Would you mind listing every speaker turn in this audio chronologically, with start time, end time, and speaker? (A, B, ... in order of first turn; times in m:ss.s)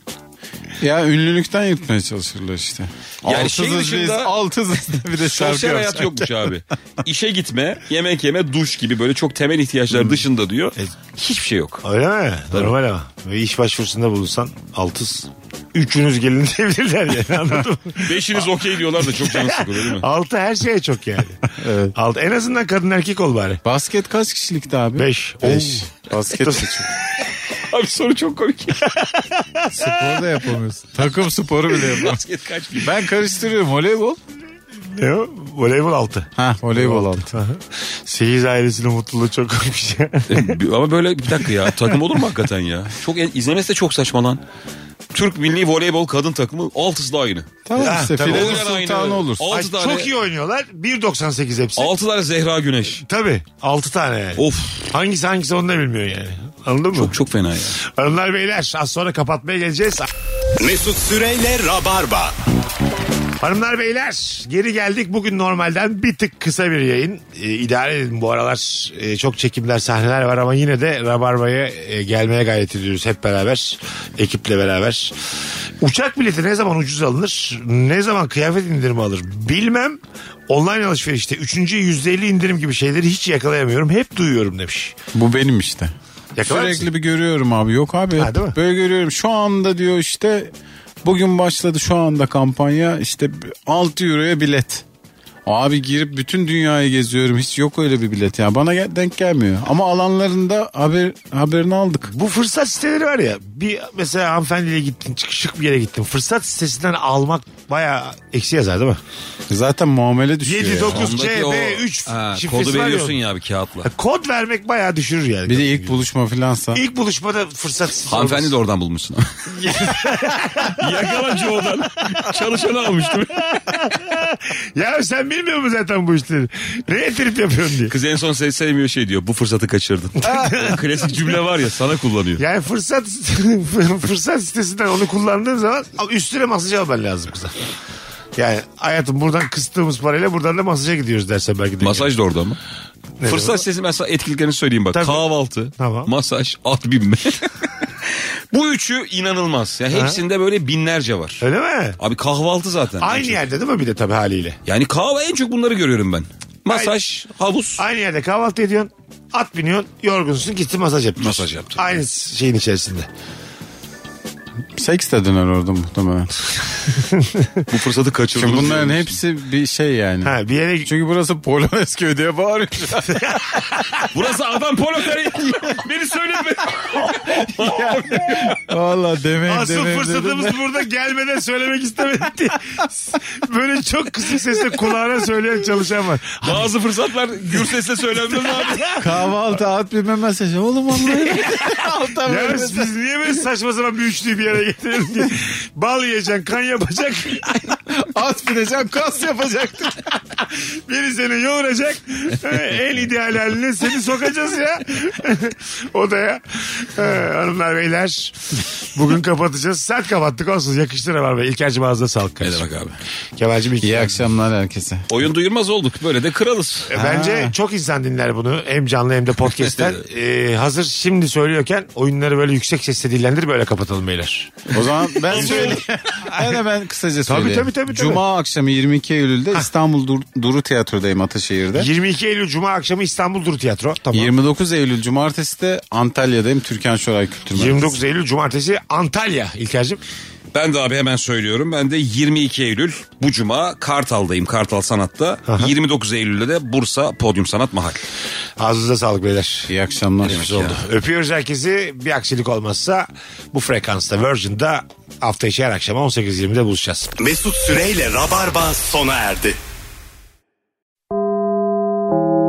0:00.8-0:06.6 A
0:03.2-0:04.3 B
0:05.2-0:11.8 B
0:09.9-0:10.2 C
0:11.8-0:23.6 C
0:18.0-0:20.0 B
0:21.4-0:21.9 A
0:23.6-0:26.9 A
0:25.0-0:26.7 C
0:27.2-0:28.9 B
0:28.8-0:30.2 C
0:29.7-0:32.2 A
0:31.7-0:33.0 B
0:32.8-0:34.2 A
0:34.9-0:40.5 C
0:36.4-0:37.4 A
0:40.3-0:44.4 B
0:45.1-0:47.6 B
0:47.6-0:49.5 A
0:47.8-0:48.7 C
0:48.1-0:50.1 B
0:49.5-0:51.9 C
0:51.8-0:53.0 B
0:53.0-0:57.1 C
0:54.4-0:54.8 B
0:56.9-0:57.8 B
0:57.8-1:00.1 C
1:00.6-1:02.3 D
1:03.4-1:15.1 C
1:15.8-1:24.9 C
1:25.1-1:30.5 A
1:26.4-1:26.9 C
1:28.2-1:28.6 C
1:31.0-1:34.8 A
1:35.4-1:42.1 A
1:42.1-1:49.0 C
1:49.5-1:51.1 A
1:50.4-1:53.2 C
1:50.8-1:53.9 B
1:53.8-1:56.0 C
1:55.4-1:56.8 A
1:56.7-1:58.5 C
1:58.1-1:59.5 B
1:59.6-2:01.1 C
2:00.6-2:03.7 B
2:03.4-2:07.9 C
2:07.9-2:12.4 B
2:10.2-2:10.8 C
2:12.4-2:17.5 C
2:18.4-2:22.1 C
2:21.8-2:22.6 B
2:23.2-2:23.6 C
2:23.2-2:31.4 B
2:24.9-2:25.2 C
2:25.8-2:26.1 C
2:29.9-2:30.2 C
2:31.4-2:32.0 C
2:32.0-2:33.4 B
2:33.0-2:34.6 C
2:34.6-2:37.8 B
2:36.7-2:36.9 C
2:37.8-2:43.1 C
2:41.2-2:42.0 B
2:44.7-2:46.3 A
2:46.9-2:47.6 C
2:47.7-2:49.2 B
2:48.4-2:53.4 A
2:50.2-2:50.9 C
2:53.1-2:54.1 C
2:54.1-2:58.6 B
2:57.2-3:00.6 A
2:59.4-3:06.7 C
3:06.4-3:09.0 B
3:08.3-3:09.2 C
3:09.0-3:12.9 A
3:11.6-3:17.8 C
3:17.9-3:20.1 A
3:20.3-3:32.6 C
3:32.4-3:33.0 B
3:33.4-3:34.3 C
3:33.8-3:35.1 A
3:35.1-3:36.9 B
3:36.9-3:44.6 C
3:36.9-3:37.5 A
3:39.5-3:40.0 B
3:44.7-3:51.9 A
3:45.2-3:45.8 B
3:45.3-3:46.3 C
3:47.2-3:48.2 C
3:51.7-3:54.3 C
3:54.1-3:58.0 A
3:57.5-4:00.0 C
4:00.5-4:08.0 B
4:05.5-4:05.7 C
4:08.6-4:09.7 C
4:09.7-4:10.6 A
4:10.2-4:17.1 C
4:10.2-4:10.8 B
4:17.2-4:19.6 D